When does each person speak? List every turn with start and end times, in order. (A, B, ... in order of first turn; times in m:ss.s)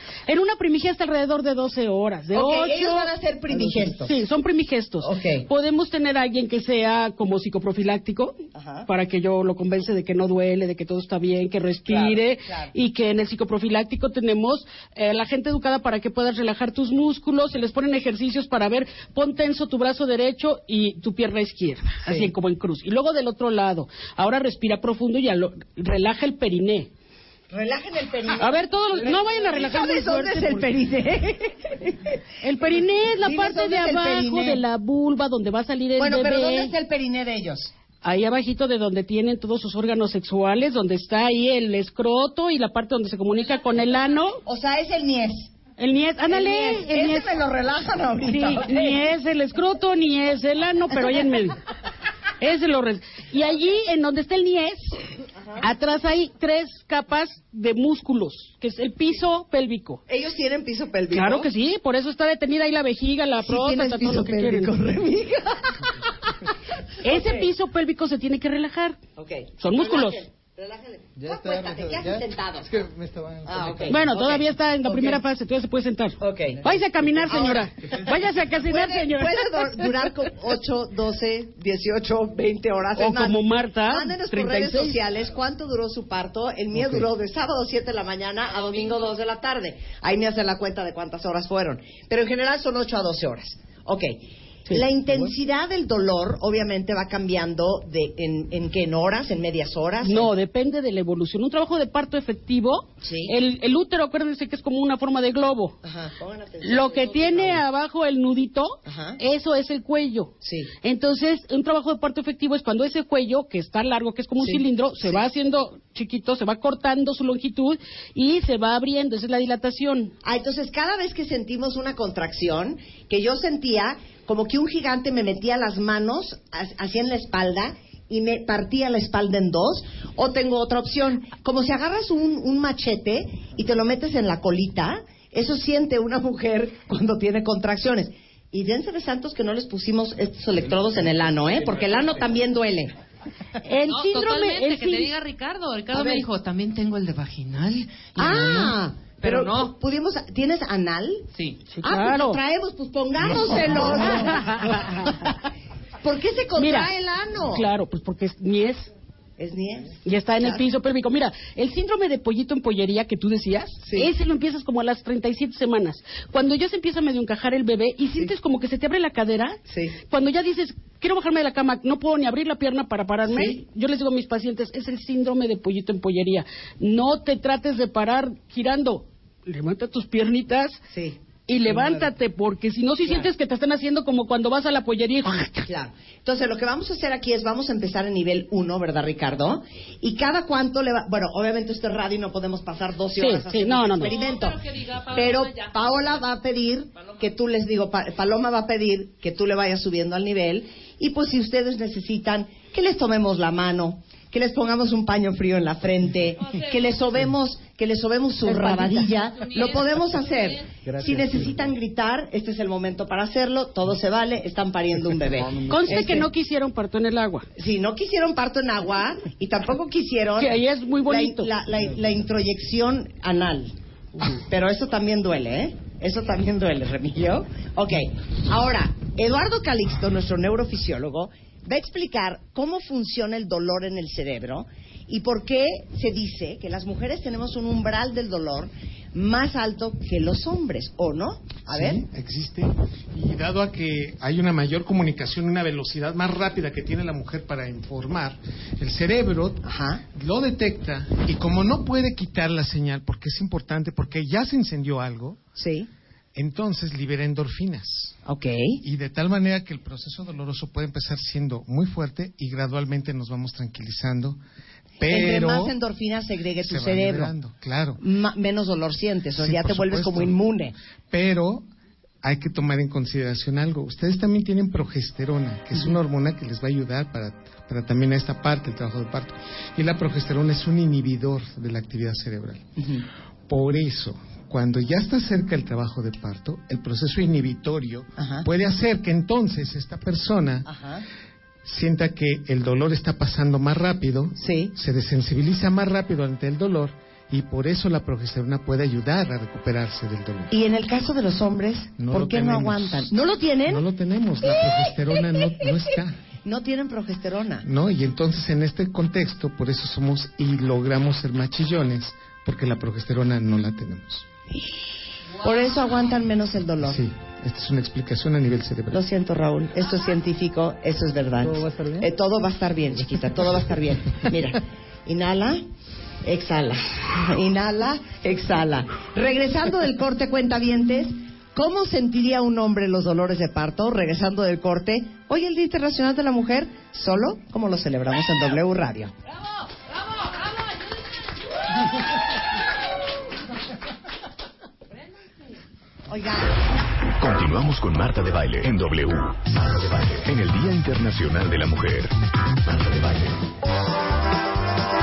0:00.3-0:26.9 A
0:02.3-0:04.1 B
0:05.0-0:05.5 B
0:08.5-0:08.8 B
0:11.9-0:12.7 B
0:27.5-0:34.6 B
0:28.4-0:30.7 A
0:32.4-0:36.7 A
0:36.0-0:37.7 B
0:38.0-0:44.4 A
0:44.4-0:45.5 B
0:45.8-0:47.4 A
0:46.3-0:49.0 B
0:48.2-0:51.6 A
0:52.4-0:55.0 A
0:55.6-1:00.0 A
1:00.1-1:01.5 B
1:01.1-1:04.7 A
1:03.4-1:06.0 B
1:07.0-1:07.5 B
1:07.0-1:09.0 A
1:09.2-1:12.7 B
1:09.6-1:10.2 A
1:11.2-1:14.0 C
1:13.5-1:15.2 B
1:13.9-1:20.0 A
1:16.2-1:16.6 B
1:17.2-1:17.7 B
1:18.5-1:40.3 B
1:23.0-1:25.0 A
1:40.0-1:45.8 A
1:43.0-1:43.3 B
1:45.8-1:47.6 B
1:46.6-2:00.1 A
1:48.8-1:49.2 B
1:50.4-1:50.7 B
1:54.4-1:55.2 B
2:00.2-2:22.9 B
2:23.6-2:25.1 A
2:23.8-2:29.7 D
2:25.9-2:26.3 B
2:28.2-2:31.3 B
2:31.3-2:31.6 D
2:31.7-2:32.4 A
2:31.8-2:34.9 B
2:33.8-2:35.1 A
2:36.0-2:37.6 B
2:36.6-2:36.9 A
2:37.5-2:38.9 A
2:39.4-2:40.6 B
2:40.0-3:00.8 A
2:43.8-2:44.1 B
2:49.7-2:50.0 B
2:53.2-2:53.6 B
3:00.9-3:01.2 B
3:01.5-3:05.7 A
3:01.7-3:02.0 B
3:05.6-3:36.3 B
3:13.2-3:14.1 A
3:14.0-3:16.2 D
3:16.9-3:17.3 D
3:26.4-3:27.0 D
3:28.5-3:29.0 A
3:29.3-3:30.7 D
3:30.8-3:31.7 C
3:35.7-3:37.4 A
3:37.6-3:43.7 B
3:40.4-3:41.5 A
3:44.3-4:02.0 B
4:01.7-4:09.6 E
4:09.6-4:10.0 B
4:10.1-4:15.4 E
4:15.6-4:15.9 B
4:16.3-4:18.2 E
4:18.2-4:18.8 B
4:18.8-4:24.4 E
4:25.0-4:25.7 E
4:25.0-4:27.3 B
4:26.6-4:28.0 E
4:28.0-4:30.7 B
4:29.4-4:30.4 E
4:31.1-4:31.6 E
4:32.2-4:42.6 E
4:42.8-4:43.0 B
4:43.5-4:50.7 E
4:48.2-4:48.4 B
4:50.7-4:51.0 B
4:51.6-5:00.5 E
4:54.4-4:54.7 B
5:00.5-5:03.8 B
5:02.0-5:03.1 E
5:03.6-5:06.2 E
5:04.4-5:05.6 B
5:06.4-5:07.6 B
5:07.6-5:14.3 E
5:15.4-5:17.0 B
5:16.8-5:19.0 E
5:18.9-5:25.6 B
5:21.5-5:22.1 C
5:26.2-5:39.1 B
5:46.1-5:46.5 B
5:47.2-5:52.1 F
5:52.6-5:53.4 F